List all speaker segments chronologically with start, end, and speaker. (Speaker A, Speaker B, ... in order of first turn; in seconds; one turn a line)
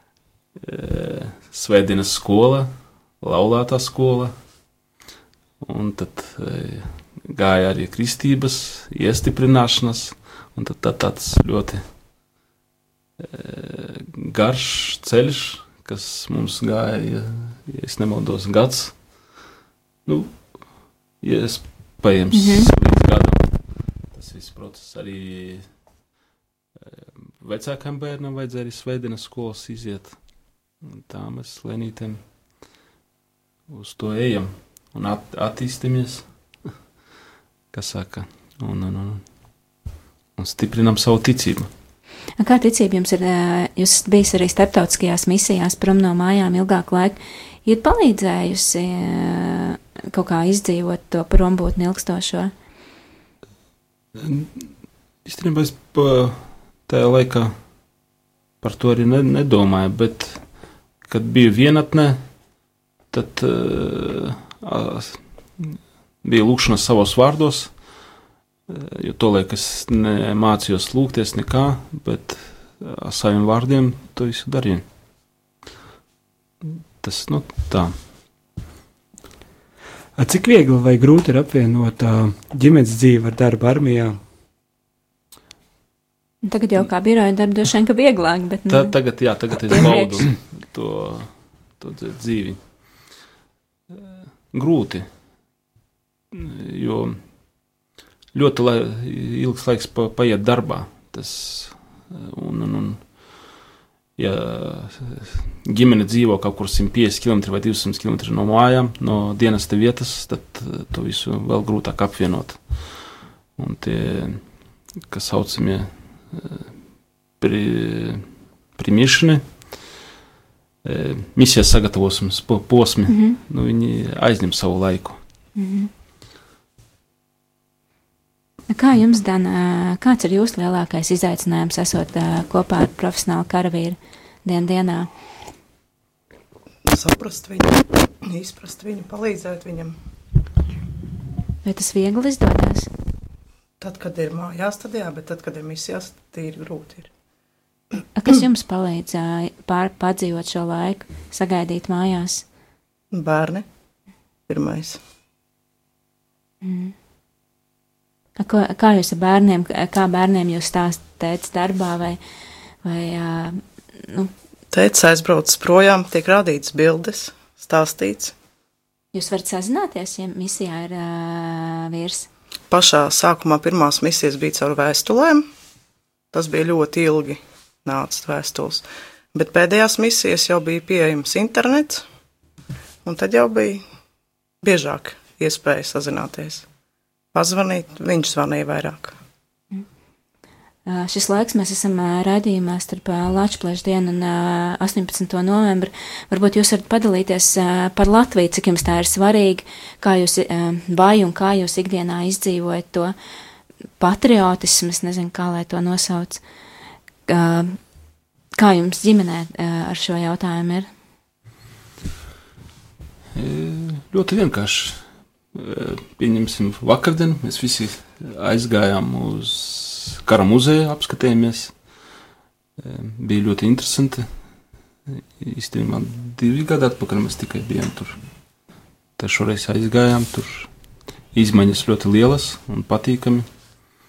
Speaker A: 0.6-4.3
Speaker A: 5.6-11.8
Speaker A: 13.2-19.4
Speaker A: 20.1-25.7
Speaker B: 22.3-22.7
Speaker A: 26.8-30.2
Speaker A: 30.8-32.2
Speaker A: 33.7-36.3
Speaker A: 37.7-39.2
Speaker A: 40.4-41.7
Speaker B: 42.4-52.5
Speaker A: 54.2-54.7
Speaker A: 55.2-57.5
Speaker A: 58.6-60.5
Speaker A: 61.0-62.2
Speaker A: 63.1-67.8
Speaker A: 68.7-74.8
Speaker A: 76.6-78.0
Speaker C: 80.2-84.2
Speaker B: 86.4-89.0
Speaker A: 88.7-93.1
Speaker B: 89.7-90.2
Speaker A: 94.5-95.1
Speaker A: 96.3-97.2
Speaker A: 98.3-103.5
Speaker A: 104.2-116.8
Speaker A: 117.4-119.9
Speaker A: 120.8-125.2
Speaker B: 123.1-123.4
Speaker B: 125.5-125.9
Speaker B: 128.7-135.1
Speaker D: 136.9-139.9
Speaker B: 141.6-142.9
Speaker D: 143.8-147.1
Speaker B: 148.2-152.4
Speaker D: 153.1-153.6
Speaker D: 154.5-155.0
Speaker B: 156.6-156.9
Speaker B: 158.4-162.2
Speaker B: 162.8-164.3
Speaker D: 164.7-168.3
Speaker B: 169.1-172.3
Speaker D: 172.7-175.5
Speaker D: 176.3-182.0
Speaker D: 183.0-183.8
Speaker D: 184.6-186.7
Speaker D: 187.3-189.2
Speaker B: 190.8-203.1
Speaker B: 204.0-206.4
Speaker B: 207.3-207.8
Speaker B: 208.5-210.9
Speaker A: 213.3-221.8
Speaker A: 222.8-224.3
Speaker A: 225.1-228.2
Speaker A: 229.2-230.7
Speaker A: 231.3-233.5